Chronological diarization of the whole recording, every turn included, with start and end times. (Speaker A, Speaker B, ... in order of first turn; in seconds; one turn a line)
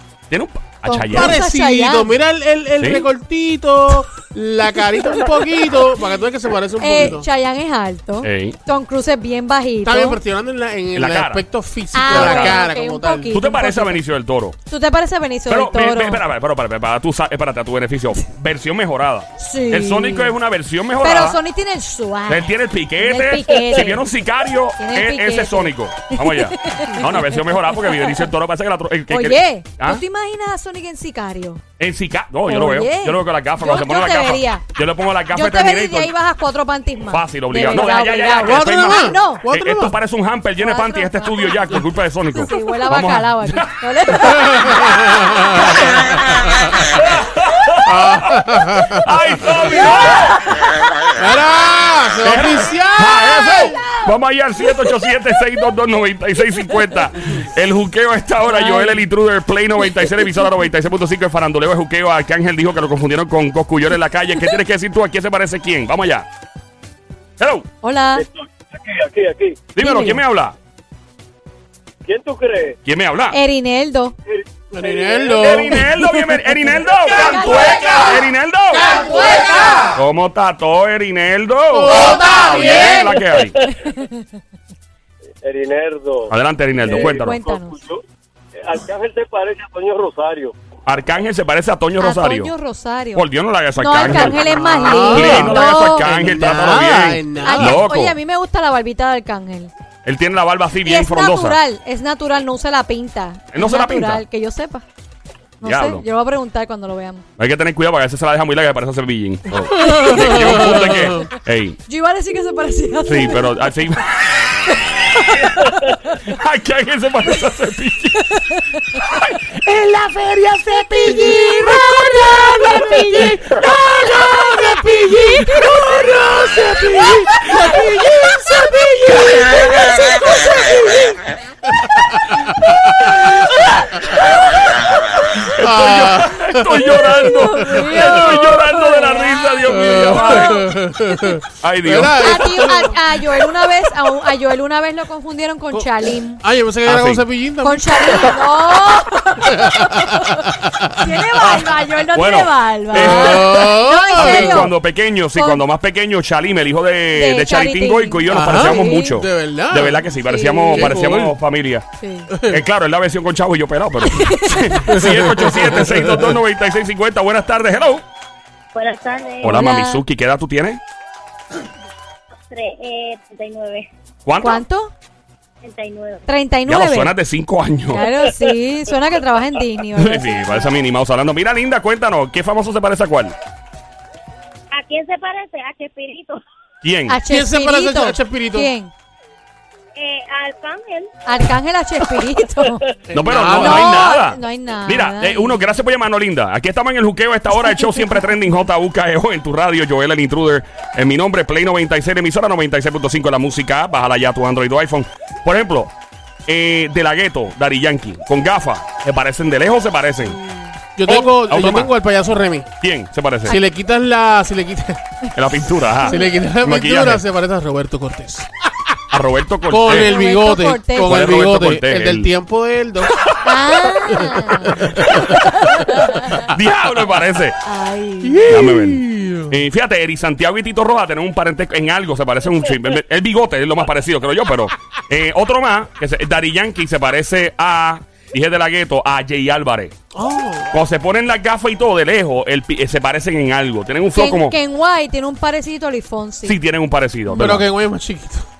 Speaker A: 0.3-1.4
Speaker B: 0.8-2.1
Speaker C: 1.1-7.3
Speaker A: 2.8-3.1
Speaker B: 6.8-10.2
Speaker A: 8.2-8.6
Speaker C: 9.8-13.3
Speaker A: 10.9-11.4
Speaker B: 11.9-14.0
Speaker A: 12.1-12.6
Speaker A: 13.3-14.6
Speaker B: 14.7-16.2
Speaker A: 15.5-21.4
Speaker B: 19.4-20.3
Speaker B: 21.0-24.0
Speaker A: 22.3-30.0
Speaker B: 24.8-28.2
Speaker B: 29.1-31.6
Speaker A: 31.8-36.1
Speaker B: 32.5-34.6
Speaker B: 35.3-39.5
Speaker A: 37.1-43.7
Speaker C: 38.4-40.0
Speaker B: 40.6-41.6
Speaker B: 42.3-45.1
Speaker A: 44.3-44.8
Speaker C: 44.5-45.8
Speaker A: 45.5-50.6
Speaker C: 47.8-50.0
Speaker C: 51.2-53.9
Speaker A: 52.2-66.3
Speaker B: 58.5-59.0
Speaker A: 67.4-67.7
Speaker B: 67.8-68.2
Speaker D: 68.2-69.6
Speaker A: 69.7-70.5
Speaker B: 69.8-70.2
Speaker D: 72.0-72.8
Speaker A: 72.8-73.4
Speaker B: 73.3-74.1
Speaker D: 74.3-75.4
Speaker C: 74.7-76.4
Speaker A: 75.4-78.9
Speaker B: 77.1-78.1
Speaker B: 78.9-79.9
Speaker A: 79.9-83.6
Speaker C: 81.7-83.2
Speaker B: 83.6-84.2
Speaker D: 85.4-86.3
Speaker A: 86.3-87.4
Speaker D: 86.8-88.0
Speaker B: 86.9-87.8
Speaker D: 88.6-90.5
Speaker A: 90.8-92.5
Speaker B: 92.0-96.1
Speaker A: 93.1-98.2
Speaker C: 94.1-97.8
Speaker B: 97.4-99.7
Speaker A: 100.0-101.6
Speaker B: 100.8-104.8
Speaker A: 103.5-104.2
Speaker B: 105.6-107.2
Speaker A: 105.6-106.0
Speaker A: 107.4-111.8
Speaker C: 109.8-111.1
Speaker B: 109.8-111.0
Speaker B: 111.9-113.7
Speaker A: 113.1-114.7
Speaker B: 114.7-115.9
Speaker A: 115.3-118.4
Speaker A: 118.9-119.5
Speaker E: 119.6-129.5
Speaker C: 127.5-128.7
Speaker C: 129.3-129.7
Speaker B: 129.8-130.3
Speaker C: 132.1-134.1
Speaker C: 135.3-138.5
Speaker A: 135.5-140.7
Speaker B: 137.2-140.7
Speaker C: 139.7-143.0
Speaker A: 141.6-142.4
Speaker B: 142.2-146.4
Speaker C: 146.4-148.4
Speaker A: 146.8-147.2
Speaker B: 147.6-154.7
Speaker C: 149.4-150.9
Speaker A: 151.4-161.9
Speaker C: 152.9-154.7
Speaker B: 155.3-155.6
Speaker B: 157.1-159.1
Speaker C: 158.3-160.1
Speaker B: 160.2-161.0
Speaker C: 160.7-161.3
Speaker B: 162.0-162.3
Speaker C: 162.3-162.6
Speaker A: 162.5-168.0
Speaker B: 164.0-165.0
Speaker F: 168.7-169.6
Speaker A: 169.4-170.8
Speaker B: 169.4-170.0
Speaker F: 172.5-173.9
Speaker A: 174.2-174.6
Speaker B: 174.4-174.9
Speaker F: 175.6-176.3
Speaker B: 176.3-177.1
Speaker A: 176.7-178.1
Speaker B: 177.9-180.7
Speaker A: 179.9-183.3
Speaker F: 184.7-186.4
Speaker A: 186.8-187.2
Speaker B: 187.1-188.9
Speaker C: 187.2-188.7
Speaker F: 189.9-191.1
Speaker B: 191.2-192.8
Speaker C: 193.1-194.1
Speaker A: 193.1-205.9
Speaker B: 193.5-195.7
Speaker A: 206.5-210.4
Speaker C: 210.9-212.7
Speaker A: 211.1-211.9
Speaker A: 212.8-213.6
Speaker C: 213.4-215.0
Speaker A: 215.3-217.2
Speaker C: 216.0-218.5
Speaker A: 219.1-220.2
Speaker C: 219.7-223.1
Speaker B: 220.0-221.3
Speaker A: 221.0-222.3
Speaker B: 223.4-226.5
Speaker C: 224.1-225.9
Speaker A: 224.8-225.3
Speaker A: 226.3-227.6
Speaker B: 227.6-228.7
Speaker C: 228.2-229.5
Speaker A: 228.4-239.9
Speaker C: 240.1-240.7
Speaker A: 240.7-244.6
Speaker B: 244.1-246.6
Speaker A: 246.4-247.6
Speaker C: 247.3-248.4